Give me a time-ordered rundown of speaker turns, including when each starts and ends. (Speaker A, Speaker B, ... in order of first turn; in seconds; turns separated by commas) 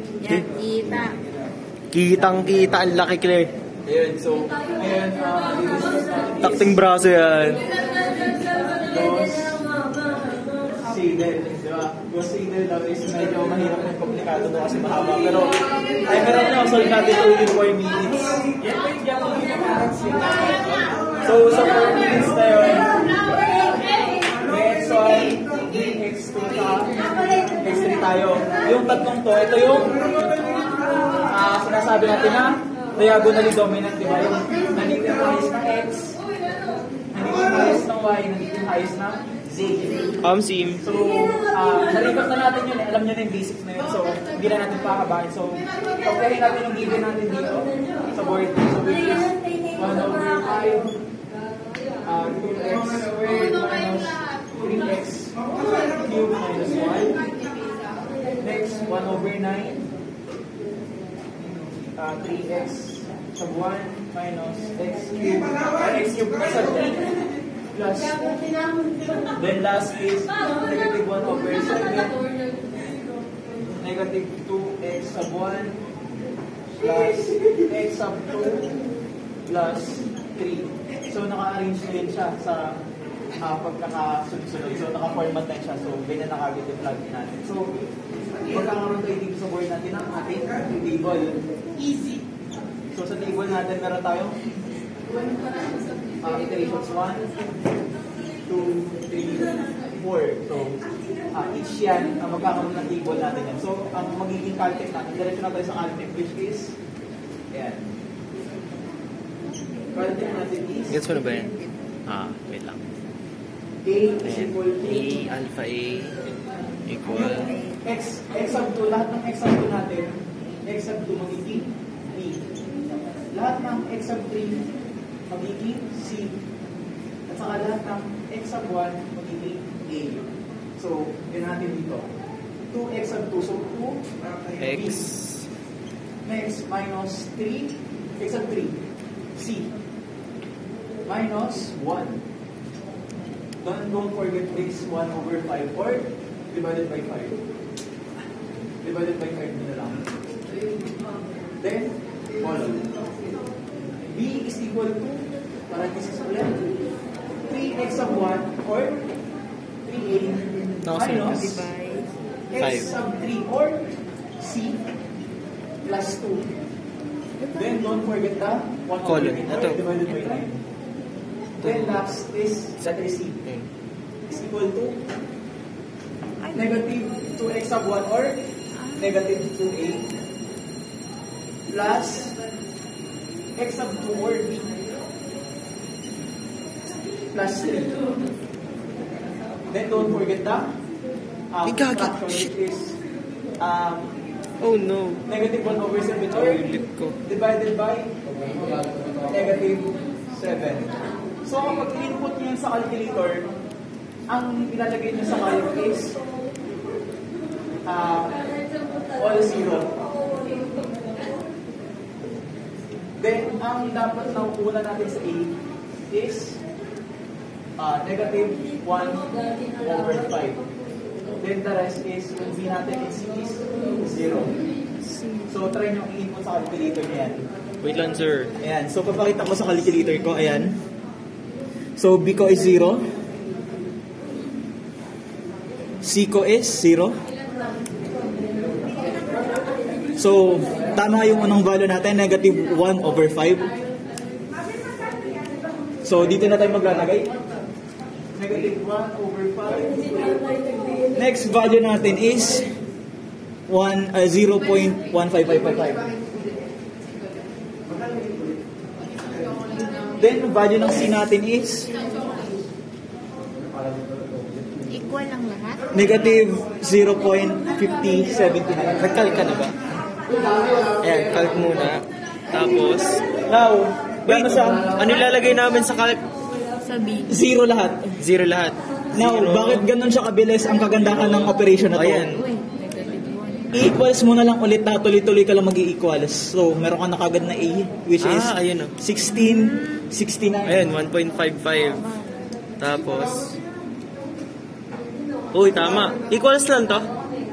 Speaker A: 0.2-1.1, Speaker B: 1.9-3.5, Speaker C: 3.9-6.8, Speaker B: 6.4-7.7, Speaker C: 8.8-9.7, Speaker C: 10.8-20.5, Speaker C: 21.2-23.0, Speaker C: 24.4-27.0, Speaker C: 27.5-30.0, Speaker C: 31.1-36.2, Speaker C: 37.1-40.2, Speaker B: 40.2-40.8, Speaker C: 40.8-51.0, Speaker C: 52.0-55.4, Speaker C: 56.0-57.2, Speaker C: 58.4-59.9, Speaker C: 61.4-67.0, Speaker C: 67.7-68.4, Speaker C: 69.3-72.2, Speaker C: 73.7-75.8, Speaker C: 76.8-78.7, Speaker C: 79.5-82.8, Speaker C: 83.4-87.9, Speaker C: 88.5-92.2, Speaker C: 92.9-94.4, Speaker C: 96.2-97.3, Speaker C: 98.5-106.8, Speaker C: 107.5-107.9, Speaker C: 109.9-111.0, Speaker B: 110.9-111.5, Speaker B: 112.1-112.8, Speaker C: 113.8-115.3, Speaker B: 114.2-116.2, Speaker B: 116.9-117.6, Speaker C: 117.4-122.5, Speaker C: 123.3-124.6, Speaker C: 125.3-126.4, Speaker C: 127.3-130.3, Speaker C: 130.8-132.1, Speaker C: 132.7-134.0, Speaker B: 134.6-135.5, Speaker C: 134.6-135.0, Speaker C: 136.2-138.8, Speaker C: 139.3-139.7, Speaker C: 141.0-142.2, Speaker C: 143.6-147.4, Speaker C: 148.8-150.1, Speaker C: 151.6-152.9, Speaker C: 154.0-156.9, Speaker C: 157.5-159.1, Speaker C: 159.8-161.7, Speaker B: 160.8-161.6, Speaker A: 161.4-162.1, Speaker C: 162.5-164.8, Speaker B: 162.6-162.9, Speaker C: 165.8-166.5, Speaker A: 167.4-167.9, Speaker C: 167.5-170.6, Speaker B: 169.0-169.8, Speaker C: 171.6-173.4, Speaker B: 171.6-172.0, Speaker C: 174.3-175.0, Speaker A: 176.4-176.7, Speaker C: 176.5-180.1, Speaker C: 181.7-182.4, Speaker C: 183.6-184.8, Speaker C: 187.3-188.0, Speaker C: 189.7-190.7, Speaker C: 191.5-193.0, Speaker B: 191.7-192.5, Speaker C: 193.6-194.1, Speaker B: 194.6-195.2, Speaker C: 195.2-198.2, Speaker B: 196.3-197.2, Speaker C: 199.2-203.5, Speaker C: 204.3-206.2, Speaker C: 207.8-208.4, Speaker C: 209.2-210.0, Speaker C: 213.2-216.6, Speaker C: 217.8-220.6, Speaker C: 221.4-224.5, Speaker A: 225.1-225.5, Speaker C: 225.5-227.5, Speaker B: 227.8-228.5, Speaker C: 228.6-230.8, Speaker C: 232.0-233.1, Speaker C: 236.0-237.2, Speaker C: 240.2-243.7, Speaker C: 246.0-247.3, Speaker C: 248.3-250.4, Speaker C: 251.1-252.7, Speaker C: 253.7-256.1, Speaker C: 260.2-261.9, Speaker A: 264.9-265.9, Speaker C: 265.9-269.1, Speaker B: 269.0-269.8, Speaker B: 271.0-273.2, Speaker C: 273.5-275.0, Speaker B: 274.2-276.2, Speaker A: 276.8-277.3, Speaker C: 277.3-278.2, Speaker B: 278.2-279.9, Speaker C: 279.1-282.4, Speaker B: 281.0-282.5, Speaker A: 282.4-283.7, Speaker C: 283.7-290.9, Speaker B: 288.2-288.9, Speaker B: 290.6-292.1, Speaker A: 292.0-292.5, Speaker B: 292.8-293.6, Speaker B: 295.5-297.1